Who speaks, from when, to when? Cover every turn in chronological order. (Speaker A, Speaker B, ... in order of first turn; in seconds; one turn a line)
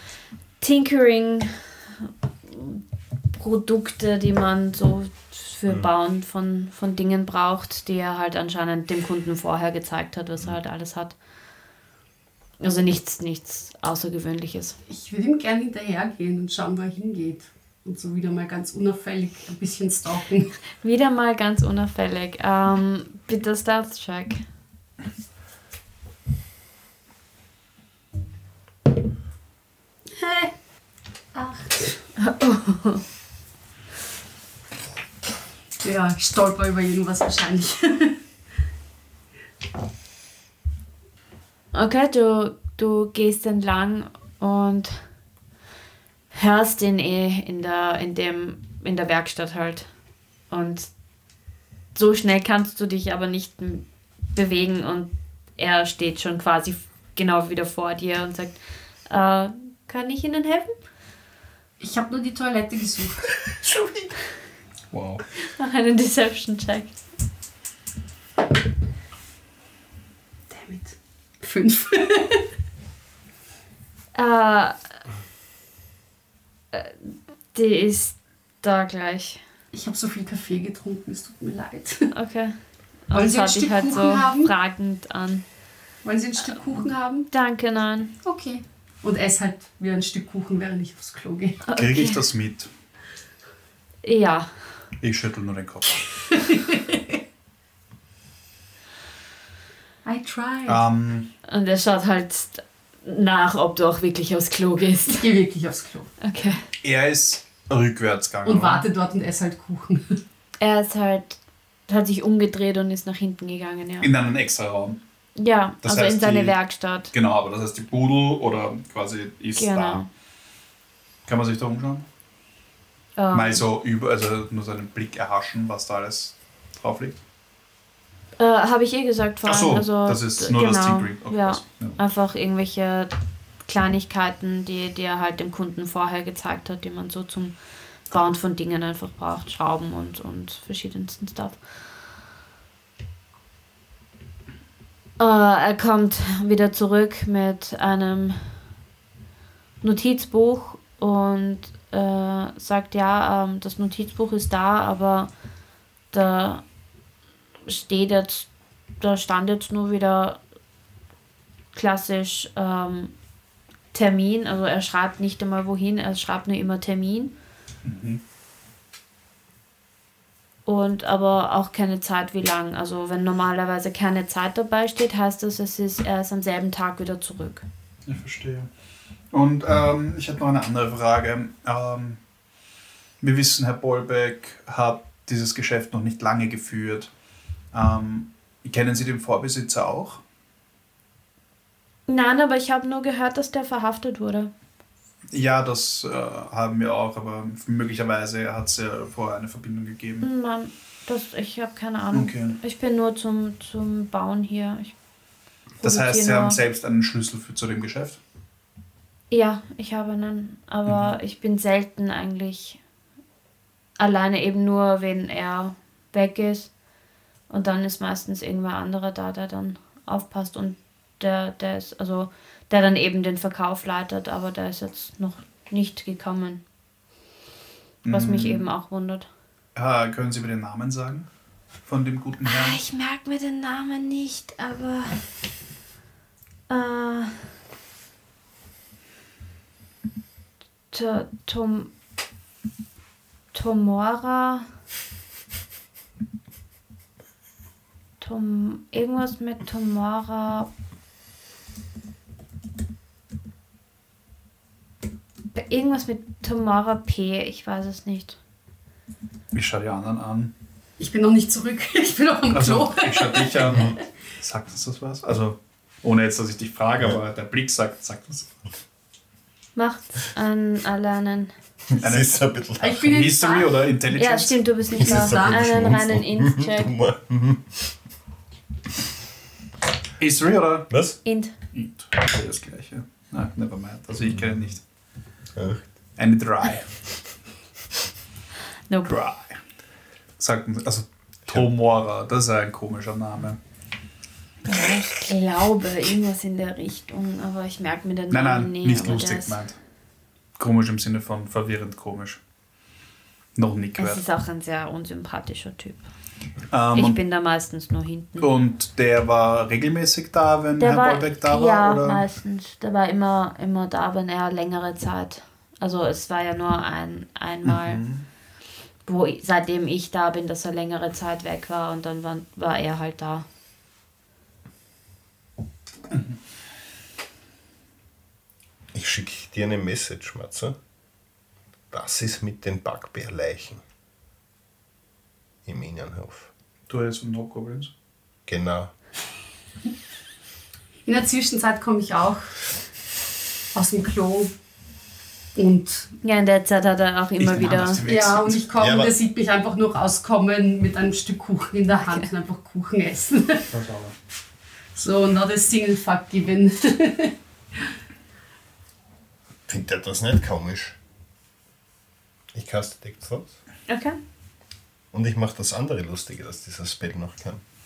Speaker A: 0.6-1.6
Speaker A: 2.5-2.8
Speaker A: 3.3-11.1
Speaker A: 12.6-14.8
Speaker B: 14.9-20.5
Speaker A: 20.8-24.4
Speaker B: 30.2-30.5
Speaker B: 31.3-31.9
Speaker A: 32.2-33.0
Speaker B: 35.8-38.2
Speaker A: 41.7-45.0
Speaker A: 46.3-49.9
Speaker A: 50.5-50.9
Speaker A: 51.9-60.7
Speaker B: 61.8-63.3
Speaker C: 64.9-65.2
Speaker A: 65.5-67.0
Speaker B: 70.5-72.5
Speaker A: 74.1-74.8
Speaker A: 76.7-79.4
Speaker B: 79.7-82.1
Speaker A: 82.1-85.4
Speaker B: 83.1-84.5
Speaker B: 86.0-87.3
Speaker A: 87.3-88.1
Speaker B: 88.2-91.6
Speaker A: 91.6-92.2
Speaker C: 91.8-92.7
Speaker A: 94.0-94.8
Speaker C: 95.0-95.9
Speaker B: 96.2-97.0
Speaker B: 100.0-100.8
Speaker C: 100.7-101.3
Speaker A: 101.5-105.3
Speaker B: 105.1-106.1
Speaker A: 106.2-106.6
Speaker C: 106.8-108.8
Speaker B: 108.4-110.2
Speaker A: 110.6-114.1
Speaker C: 114.0-115.0
Speaker A: 115.3-117.1
Speaker C: 115.8-116.6
Speaker C: 117.1-120.0
Speaker A: 119.5-120.1
Speaker C: 121.3-122.0
Speaker A: 123.2-123.6
Speaker C: 123.3-127.1
Speaker A: 128.4-133.1
Speaker C: 129.4-132.0
Speaker A: 133.7-141.6
Speaker A: 145.2-148.6
Speaker A: 149.8-155.3
Speaker A: 156.1-156.6
Speaker A: 157.7-160.4
Speaker A: 161.7-163.1
Speaker A: 163.9-167.3
Speaker C: 167.8-168.2
Speaker A: 170.7-177.6
Speaker C: 178.1-178.7
Speaker C: 179.3-182.2
Speaker C: 183.2-187.1
Speaker C: 187.7-190.2
Speaker A: 192.1-194.5
Speaker C: 195.3-200.3
Speaker A: 200.2-204.9
Speaker C: 202.1-202.6
Speaker A: 205.8-206.6
Speaker C: 205.8-208.2
Speaker A: 209.3-212.8
Speaker C: 210.8-211.1
Speaker A: 214.0-216.7
Speaker A: 217.5-226.6
Speaker C: 228.0-228.7
Speaker A: 228.1-229.3
Speaker C: 229.7-231.3
Speaker C: 231.8-232.8
Speaker A: 232.4-235.2
Speaker A: 236.7-237.3
Speaker A: 240.9-241.9
Speaker A: 243.5-244.7
Speaker A: 248.2-250.7
Speaker A: 255.5-258.4
Speaker C: 259.5-260.5
Speaker B: 261.0-263.9
Speaker C: 262.5-268.5
Speaker A: 269.8-271.5
Speaker D: 271.9-273.2
Speaker C: 272.0-272.3
Speaker B: 272.8-273.7
Speaker C: 273.1-274.6
Speaker A: 274.1-276.9
Speaker B: 275.0-275.6
Speaker D: 275.0-277.9
Speaker C: 280.2-280.9
Speaker D: 280.9-281.2
Speaker A: 281.2-281.5
Speaker C: 281.7-284.8
Speaker D: 285.5-285.9
Speaker C: 286.2-286.9
Speaker A: 288.9-289.1
Speaker C: 289.0-289.6
Speaker C: 290.4-293.6
Speaker A: 294.6-299.6
Speaker C: 298.3-299.8
Speaker C: 300.6-302.4
Speaker C: 303.5-304.2
Speaker A: 304.0-306.0
Speaker C: 306.7-307.2
Speaker A: 306.9-308.5
Speaker C: 308.4-312.2
Speaker A: 310.8-318.0
Speaker C: 317.6-318.2
Speaker A: 319.1-323.4
Speaker D: 328.9-330.8
Speaker D: 331.9-333.8
Speaker D: 335.6-336.5
Speaker C: 336.9-337.9
Speaker D: 338.5-338.9
Speaker B: 341.1-342.6
Speaker B: 343.7-344.5
Speaker B: 345.5-346.1
Speaker A: 346.2-348.0
Speaker C: 347.4-348.6
Speaker B: 348.0-353.7
Speaker D: 348.8-349.1
Speaker C: 353.7-354.1
Speaker B: 354.9-357.3
Speaker D: 359.7-360.9
Speaker D: 362.5-363.6
Speaker A: 363.9-364.1
Speaker D: 365.1-367.6